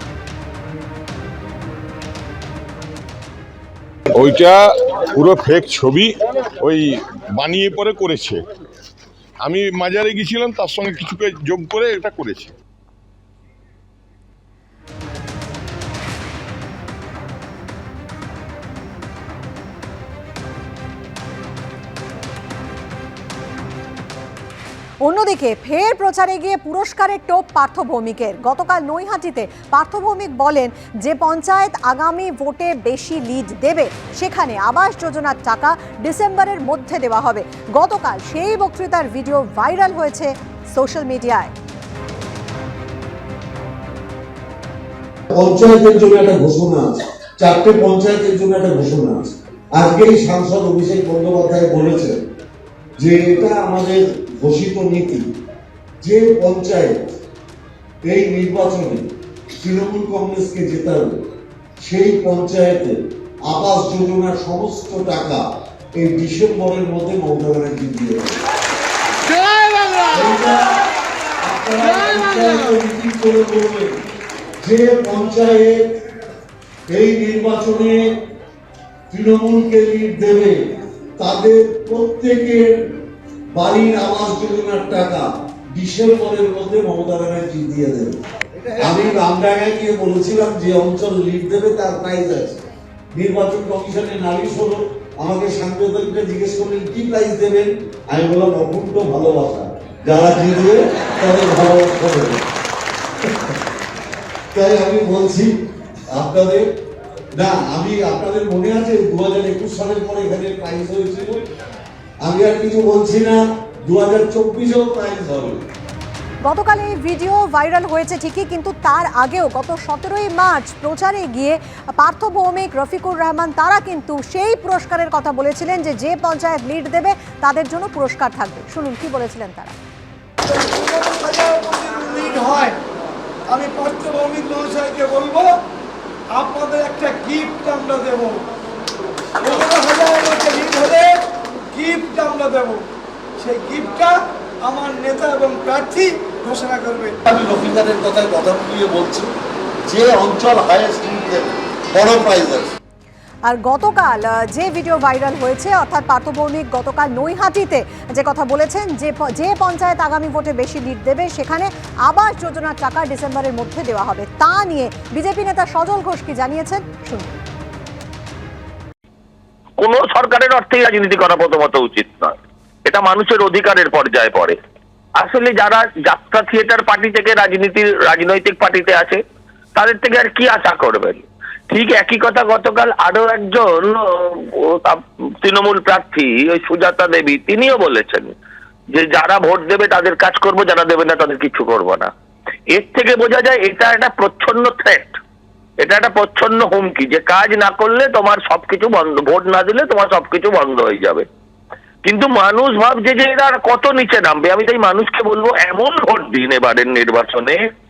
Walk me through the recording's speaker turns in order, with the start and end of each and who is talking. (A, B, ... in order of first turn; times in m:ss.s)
0:04.1-0:08.4 A
0:09.4-0:12.5 A
0:25.0-0:41.5 B
0:45.3-0:52.2 C
0:53.0-0:55.3 C
0:56.0-0:57.2 C
0:58.1-1:01.3 C
1:01.8-1:05.4 C
1:06.0-1:08.4 C
1:10.1-1:10.8 C
1:11.4-1:14.0 C
1:14.6-1:15.8 C
1:16.9-1:18.2 C
1:19.1-1:23.0 C
1:23.5-1:28.2 C
1:28.8-1:42.5 C
1:44.5-1:45.5 C
1:46.1-1:46.7 C
1:47.3-1:51.4 C
1:52.2-1:55.6 C
1:56.4-2:09.8 B
2:10.4-2:12.8 D
2:13.5-2:15.6 D
2:16.3-2:18.4 D
2:19.4-2:22.9 D
2:23.4-2:27.2 D
2:27.3-2:29.3 C
2:29.9-2:32.8 C
2:33.5-2:47.4 B
2:49.8-2:52.3 E
2:52.9-2:54.6 E
2:55.2-2:59.2 E
2:59.8-3:08.3 E
3:08.9-3:12.1 E
3:12.7-3:15.2 E
3:15.8-3:21.2 E
3:22.0-3:27.6 E